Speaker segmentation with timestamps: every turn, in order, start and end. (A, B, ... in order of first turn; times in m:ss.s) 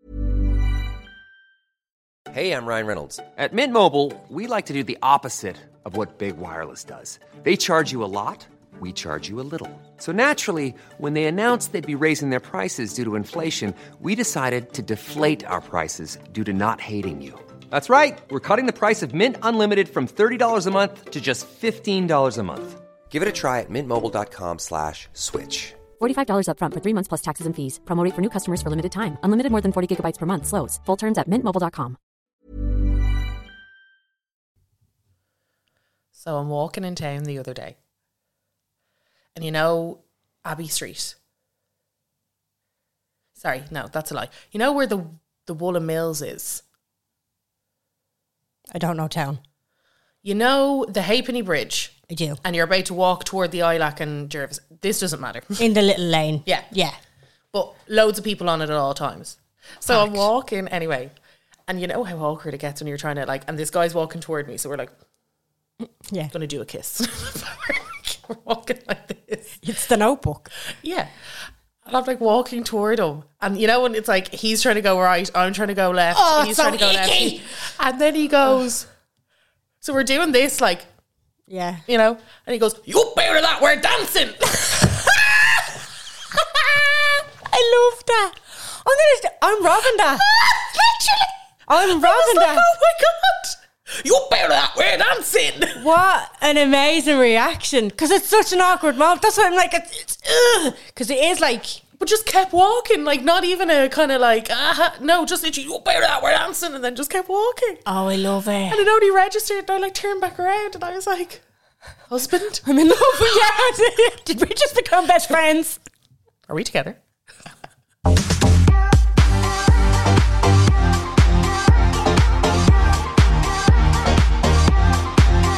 0:02.3-0:25.8 A
0:26.0-0:32.0 B
0:36.1-0:37.8 C
0:39.4-0:41.2 C
0:43.4-0:46.6 C
0:48.7-0:49.4 D
0:50.2-0:55.6 C
0:52.1-0:52.4 D
0:55.6-0:57.0 D
0:57.5-1:01.1 C
0:59.9-1:00.2 D
1:01.7-1:04.9 C
1:06.3-1:09.6 C
1:09.6-1:10.5 D
1:10.7-1:11.1 C
1:11.8-1:18.9 C
1:16.1-1:17.4 D
1:19.8-1:20.9 C
1:21.5-1:21.8 D
1:21.9-1:27.2 C
1:27.4-1:30.3 D
1:29.8-1:35.9 C
1:31.7-1:32.7 D
1:35.8-1:41.8 D
1:42.0-1:47.8 C
1:47.9-1:48.8 D
1:48.7-1:51.4 C
1:52.1-1:52.6 C
1:52.6-1:55.8 D
1:56.5-1:57.0 C